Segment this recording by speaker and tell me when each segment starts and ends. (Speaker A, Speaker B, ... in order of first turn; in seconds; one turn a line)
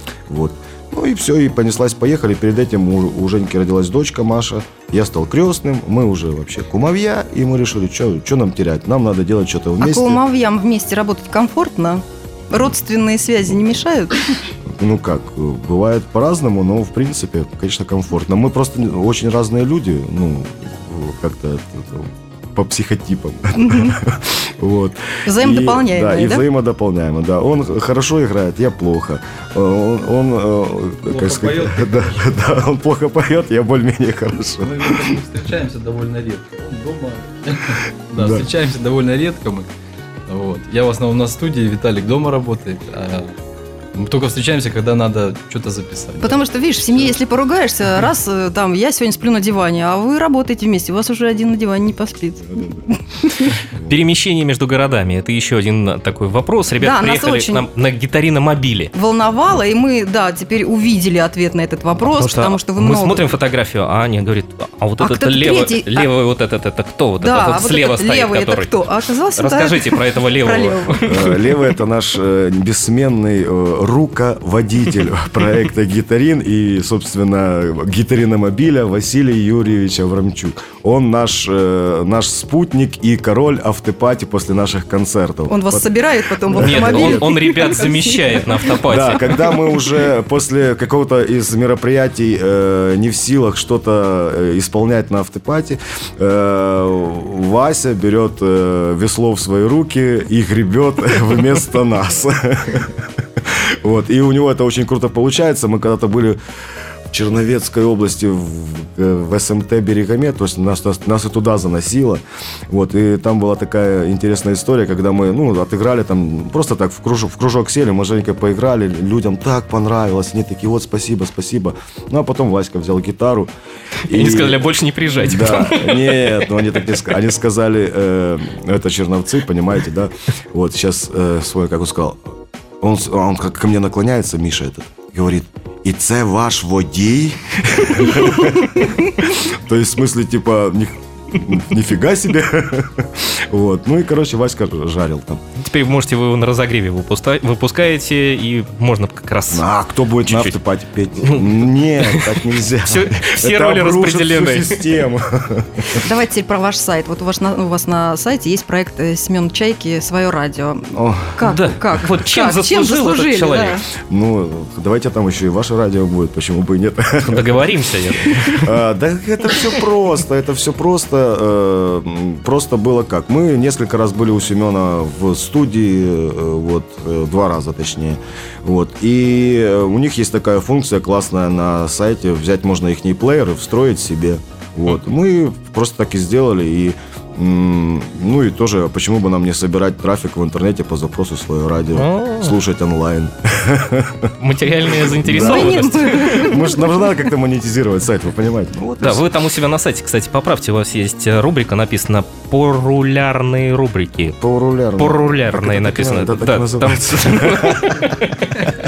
Speaker A: 0.3-10.2
Speaker B: 9.8-14.2
Speaker A: 14.7-35.2
Speaker B: 23.6-24.0
Speaker B: 25.2-26.5
Speaker C: 31.1-32.4
Speaker C: 34.6-39.7
Speaker A: 38.1-38.5
Speaker C: 40.3-43.3
Speaker C: 43.9-46.4
Speaker B: 46.2-53.6
Speaker D: 53.8-58.9
Speaker B: 56.8-57.7
Speaker B: 58.9-63.3
Speaker D: 62.0-68.8
Speaker B: 65.0-66.1
Speaker B: 67.2-71.1
Speaker D: 69.4-71.5
Speaker A: 71.1-85.9
Speaker B: 85.5-88.6
Speaker A: 86.5-87.3
Speaker D: 86.6-89.5
Speaker A: 88.8-106.4
Speaker A: 107.1-123.5
Speaker A: 124.1-124.6
Speaker D: 124.1-126.6
Speaker A: 125.2-132.2
Speaker A: 132.8-145.4
Speaker D: 145.6-149.7
Speaker A: 149.5-156.0
Speaker D: 150.2-150.6
Speaker D: 151.2-154.9
Speaker B: 155.9-163.8
Speaker A: 160.9-161.4
Speaker D: 161.4-163.8
Speaker A: 164.1-167.7
Speaker D: 167.2-168.8
Speaker A: 168.5-194.3
Speaker D: 191.9-192.6
Speaker D: 194.4-196.5
Speaker A: 194.9-199.3
Speaker B: 195.3-196.9
Speaker D: 199.0-204.4
Speaker A: 204.4-208.2
Speaker D: 205.0-208.4